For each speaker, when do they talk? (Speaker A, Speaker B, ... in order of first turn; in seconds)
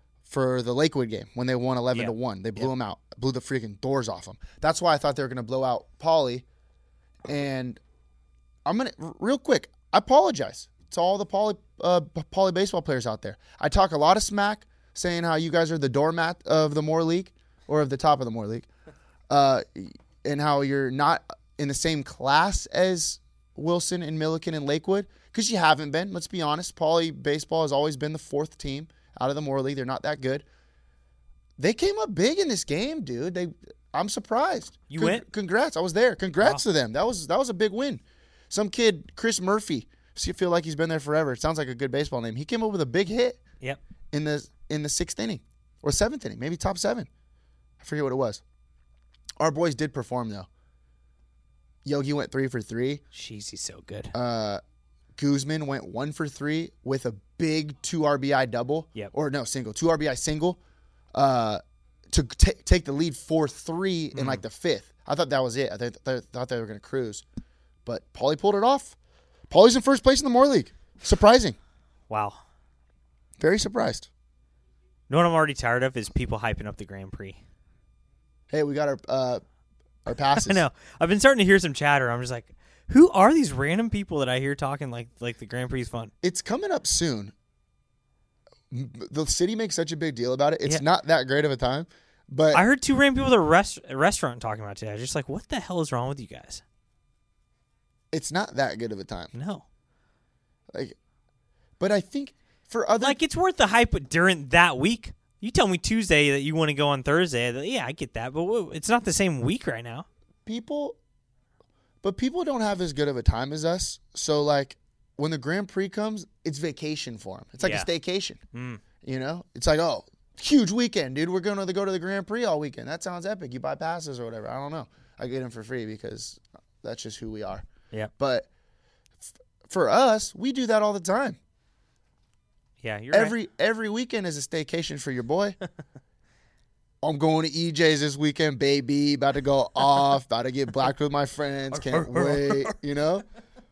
Speaker A: 0.3-6.5, 7.3-7.8, 8.7-18.7, 19.3-30.4, 31.6-43.4, 44.1-47.1, 47.8-48.4, 49.4-50.5, 51.9-53.0, 54.1-54.6, 55.2-60.6, 61.1-67.2, 67.8-69.0, 69.5-71.6, 73.4-74.1, 78.5-79.4, 80.1-80.6, 86.2-87.3, 88.7-92.6, 98.1-99.3, 101.8-103.2, 110.5-111.0, 112.0-118.4, 119.0-127.7, 128.2-128.5, 129.2-131.4, 133.1-135.6, 137.0-143.2
Speaker B: 1.9-2.7, 34.9-35.2, 53.1-54.1, 64.1-64.4, 72.1-72.4, 75.1-77.4, 80.3-86.1, 92.5-96.6, 99.3-99.7, 103.0-110.1, 117.6-117.9, 118.5-118.8, 132.8-133.4, 141.7-142.8